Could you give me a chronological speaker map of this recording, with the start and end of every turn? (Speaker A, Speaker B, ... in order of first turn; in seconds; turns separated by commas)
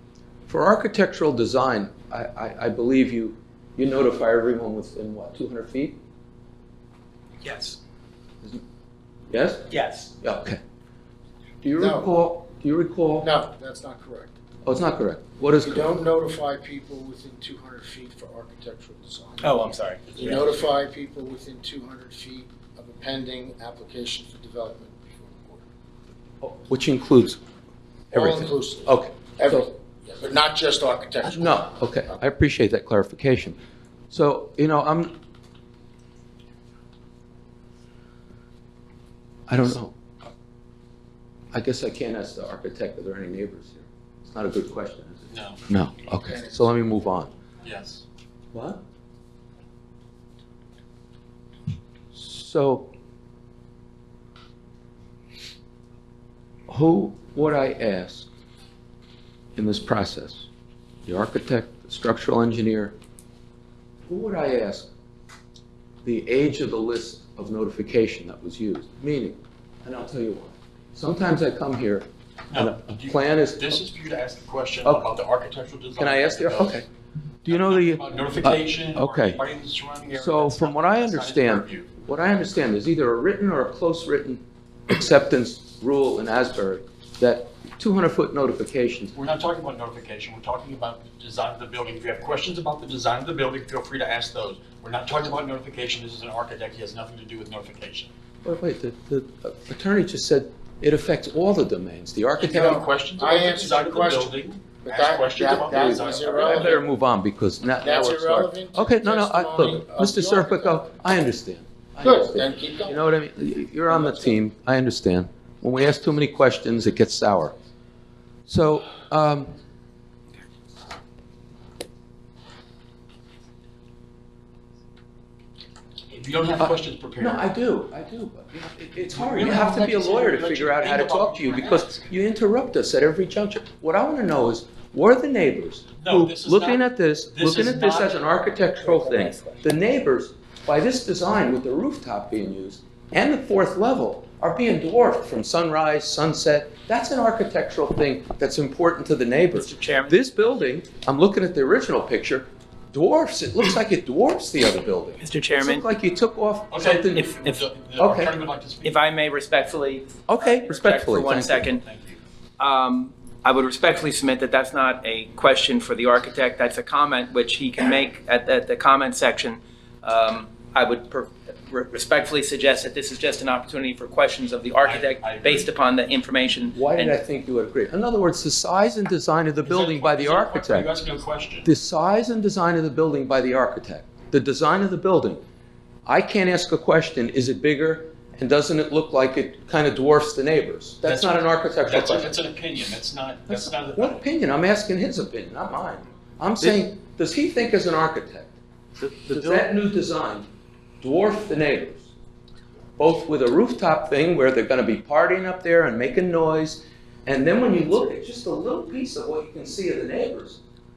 Speaker A: 0.5-6.0, Speaker B: 7.4-7.8, Speaker A: 9.3-9.7, Speaker B: 9.7-10.1, Speaker A: 10.2-10.6, Speaker A: 11.6-13.3, Speaker C: 11.8-12.1, Speaker C: 13.2-14.3, Speaker A: 14.7-16.0, Speaker C: 15.6-25.7, Speaker B: 19.4-20.1, Speaker D: 20.1-20.5, Speaker A: 26.4-27.4, Speaker A: 28.1-29.7, Speaker C: 28.1-31.6, Speaker A: 31.2-33.6, Speaker A: 34.1-35.2, Speaker A: 39.5-40.0, Speaker A: 41.5-47.3, Speaker D: 45.3-45.6, Speaker C: 46.2-46.9, Speaker D: 47.6-48.0, Speaker A: 48.5-48.8, Speaker A: 52.1-52.9, Speaker A: 56.7-58.3, Speaker A: 59.5-60.5, Speaker A: 61.0-63.0, Speaker A: 64.1-64.9, Speaker A: 66.0-73.8, Speaker D: 72.5-76.8, Speaker A: 74.8-75.1, Speaker A: 76.0-76.8, Speaker A: 77.4-79.4, Speaker D: 77.5-81.9, Speaker A: 80.1-89.1, Speaker D: 89.1-98.1, Speaker A: 98.4-102.8, Speaker D: 102.3-106.7, Speaker C: 102.5-106.8, Speaker A: 105.6-117.5, Speaker C: 107.8-110.8, Speaker C: 112.0-113.1, Speaker C: 113.9-114.4, Speaker A: 118.5-119.5, Speaker D: 126.1-127.5, Speaker A: 126.6-157.3, Speaker D: 129.1-132.1, Speaker D: 136.0-138.2, Speaker B: 149.5-150.5, Speaker B: 155.2-155.9, Speaker D: 156.7-159.0, Speaker B: 157.3-157.7, Speaker A: 158.0-158.3, Speaker B: 158.8-161.8, Speaker A: 160.3-161.6, Speaker D: 161.4-162.2, Speaker B: 162.6-177.2, Speaker D: 174.8-175.7, Speaker A: 176.7-180.9, Speaker D: 179.6-181.7, Speaker A: 181.7-185.4, Speaker A: 186.1-192.4, Speaker D: 191.0-194.2, Speaker A: 193.5-200.5, Speaker A: 201.0-202.1, Speaker A: 203.0-210.6